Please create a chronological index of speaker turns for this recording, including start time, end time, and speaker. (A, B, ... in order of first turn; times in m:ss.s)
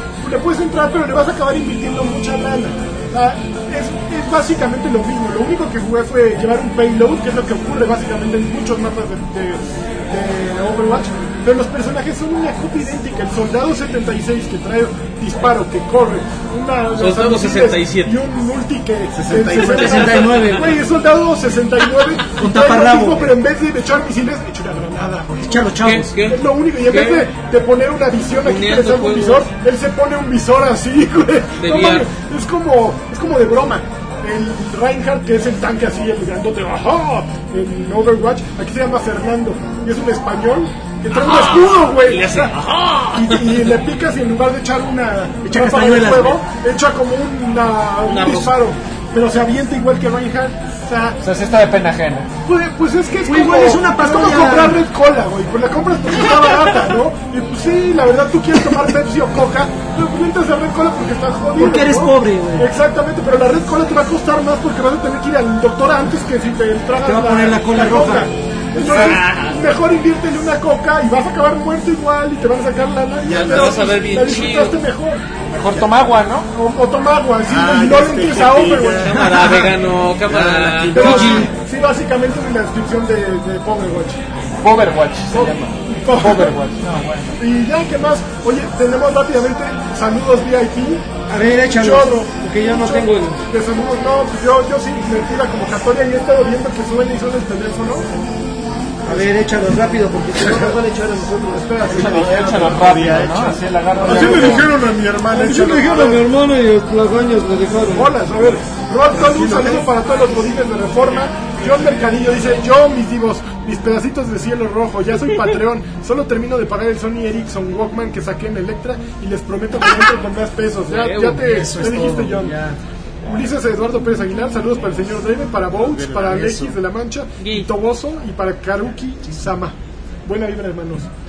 0:00.2-0:25.7 A
0:17.0-0:18.2 B
0:19.1-0:20.2 C
0:19.6-0:20.6 B
0:19.6-0:20.8 D
0:22.4-0:23.4 D
0:25.4-0:26.1 D
0:25.8-0:27.3 B
0:26.2-0:42.6 A
0:28.4-0:29.5 B
0:31.6-0:32.1 B
0:41.1-0:43.7 B
0:43.1-0:51.2 A
0:45.5-0:46.4 D
0:48.1-0:48.6 B
0:51.2-0:52.3 E
0:52.4-1:15.2 A
0:53.2-0:54.8 D
1:01.6-1:02.7 D
1:07.0-1:09.1 D
1:08.8-1:09.6 B
1:13.2-1:14.1 C
1:13.4-1:14.8 B
1:15.5-1:16.5 E
1:16.5-1:19.1 A
1:17.4-1:19.2 C
1:19.0-1:21.4 B
1:19.1-1:19.7 D
1:20.3-1:21.5 C
1:21.0-1:24.2 A
1:21.0-1:21.5 D
1:24.6-1:27.4 E
1:25.3-1:26.6 A
1:27.4-1:31.0 A
1:31.3-1:33.4 D
1:31.7-1:38.1 A
1:39.0-1:42.0 D
1:41.5-1:42.7 A
1:41.8-1:46.0 C
1:41.9-1:44.7 E
1:44.0-1:44.7 A
1:44.1-1:44.5 D
1:45.3-1:48.1 D
1:45.7-1:46.3 A
1:47.9-2:02.6 A
1:49.1-1:49.9 C
2:00.9-2:01.4 B
2:01.4-2:02.8 D
2:03.2-2:09.8 A
2:05.8-2:06.8 C
2:07.4-2:07.7 B
2:10.3-2:11.1 A